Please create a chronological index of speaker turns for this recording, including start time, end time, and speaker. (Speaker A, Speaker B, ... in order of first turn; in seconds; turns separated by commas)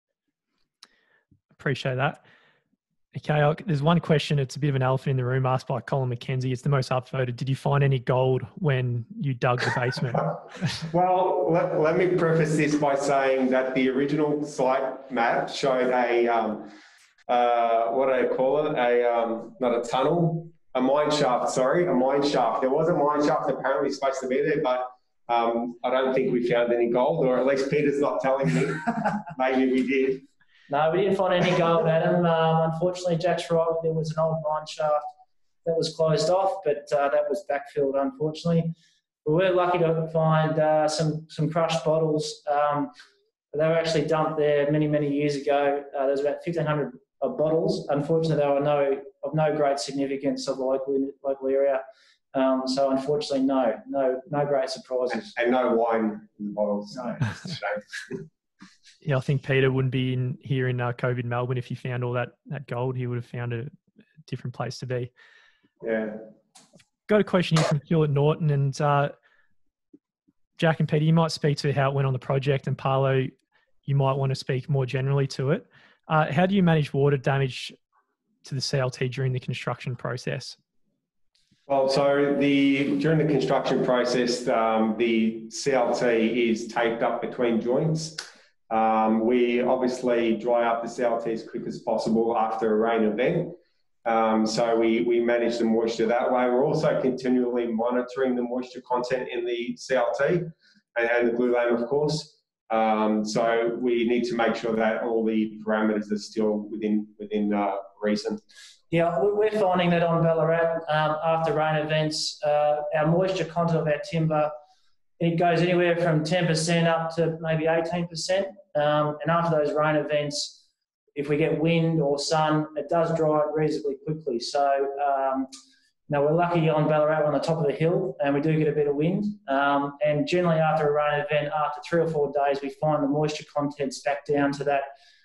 Speaker A: 1.6-2.2, Speaker A: 3.1-10.8, Speaker B: 10.8-16.7, Speaker B: 17.3-30.2, Speaker C: 30.7-35.1, Speaker C: 35.6-38.7, Speaker C: 39.2-42.9, Speaker C: 43.5-51.8, Speaker C: 52.3-55.3, Speaker B: 55.1-58.2, Speaker A: 59.0-63.7, Speaker A: 64.3-65.1, Speaker B: 65.8-66.2, Speaker A: 67.1-69.1, Speaker A: 70.6-73.3, Speaker A: 73.9-77.8, Speaker A: 78.5-80.6, Speaker B: 81.7-108.4, Speaker C: 108.9-114.5, Speaker C: 115.2-120.6, Speaker C: 121.2-125.5, Speaker C: 126.1-134.9